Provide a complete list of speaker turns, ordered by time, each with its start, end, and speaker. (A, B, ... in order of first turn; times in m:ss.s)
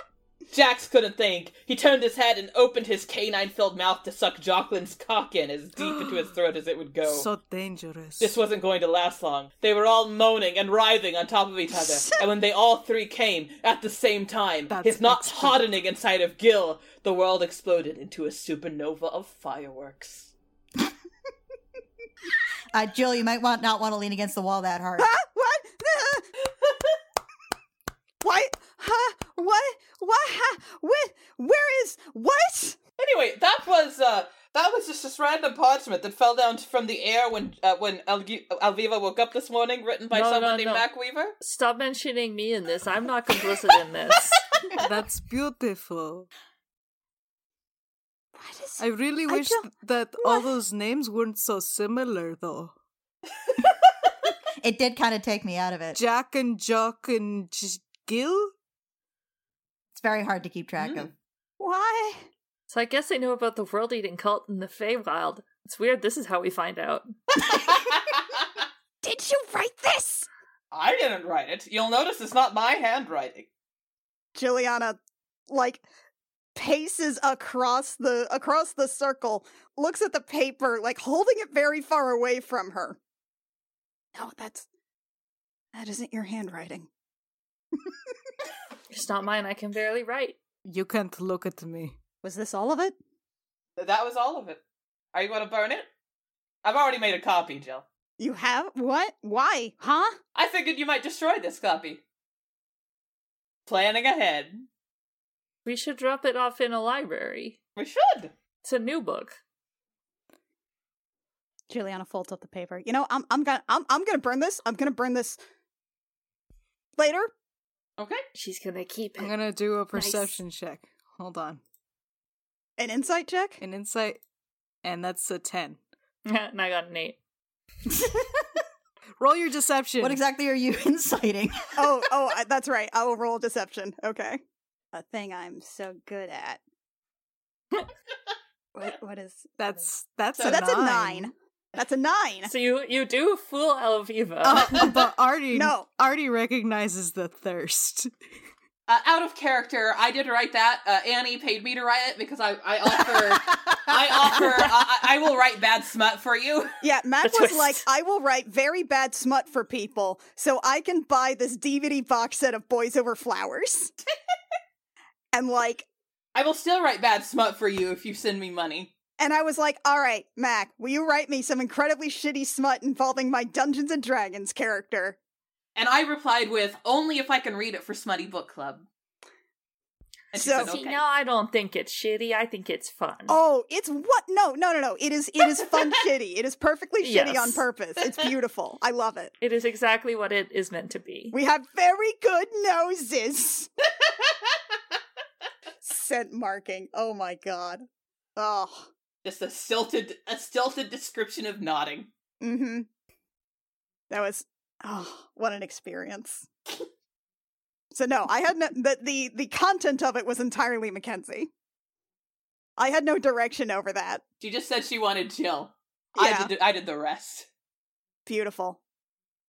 0:00.5-0:07.2 A
0:05.8-0:06.2 B
0:07.1-0:08.4 B
0:08.2-0:20.3 A
0:14.7-0:15.6 B
0:22.7-0:25.1 C
0:25.0-0:26.2 D
0:26.6-0:26.9 A
0:28.2-0:32.8 D
0:33.0-0:41.4 A
0:40.1-0:40.9 E
0:41.4-0:44.5 E
0:44.8-0:46.3 B
0:48.4-0:49.6 D
0:48.8-0:52.7 B
0:50.2-0:50.5 D
0:54.6-0:56.0 C
0:56.0-0:58.5 B
0:59.9-1:01.1 C
1:00.8-1:01.1 A
1:01.6-1:02.3 D
1:02.7-1:07.1 E
1:07.6-1:08.6 A
1:09.0-1:10.3 D
1:10.7-1:13.5 A
1:14.4-1:15.0 D
1:15.5-1:15.8 D
1:16.6-1:23.0 D
1:24.1-1:24.6 D
1:25.7-1:26.9 D
1:28.9-1:30.4 E
1:30.6-1:32.0 B
1:32.2-1:32.9 D
1:33.8-1:34.6 A
1:35.1-1:35.9 A
1:36.6-1:37.8 A
1:38.2-1:40.2 D
1:40.4-1:42.0 A
1:43.6-1:44.7 A
1:45.6-1:47.6 E
1:47.8-1:48.3 A
1:48.6-1:49.4 E
1:51.7-1:55.4 D
1:57.0-1:57.3 D
1:58.0-1:58.2 A
1:58.4-1:59.3 E
1:59.2-2:01.6 B
1:59.9-2:00.4 E
2:02.8-2:03.6 D
2:03.6-2:04.2 B
2:04.8-2:05.8 B
2:06.2-2:07.2 E
2:09.2-2:10.2 B
2:10.0-2:11.8 C
2:11.8-2:14.4 D
2:14.9-2:16.6 D
2:18.7-2:19.5 D
2:19.6-2:21.3 B
2:20.4-2:22.5 D
2:22.4-2:24.9 E
2:24.4-2:28.1 B
2:25.5-2:25.9 D
2:28.9-2:36.8 A
2:33.1-2:33.7 C
2:34.3-2:34.6 C
2:36.8-2:43.9 D
2:37.2-2:37.8 E
2:45.3-2:45.9 D
2:46.4-2:48.9 A
2:49.2-2:55.2 D
2:55.8-2:58.9 A
3:00.3-3:01.0 A
3:00.3-3:00.7 D
3:00.6-3:03.4 E
3:03.3-3:09.3 D
3:07.0-3:07.6 E
3:09.4-3:11.4 E
3:11.3-3:13.7 D
3:15.8-3:17.8 D
3:18.4-3:18.9 D
3:19.2-3:22.1 A
3:22.4-3:22.9 D
3:24.1-3:26.5 D
3:27.9-3:31.5 D
3:32.8-3:34.2 D
3:34.4-3:37.5 A
3:36.2-3:36.5 D
3:38.2-3:38.8 D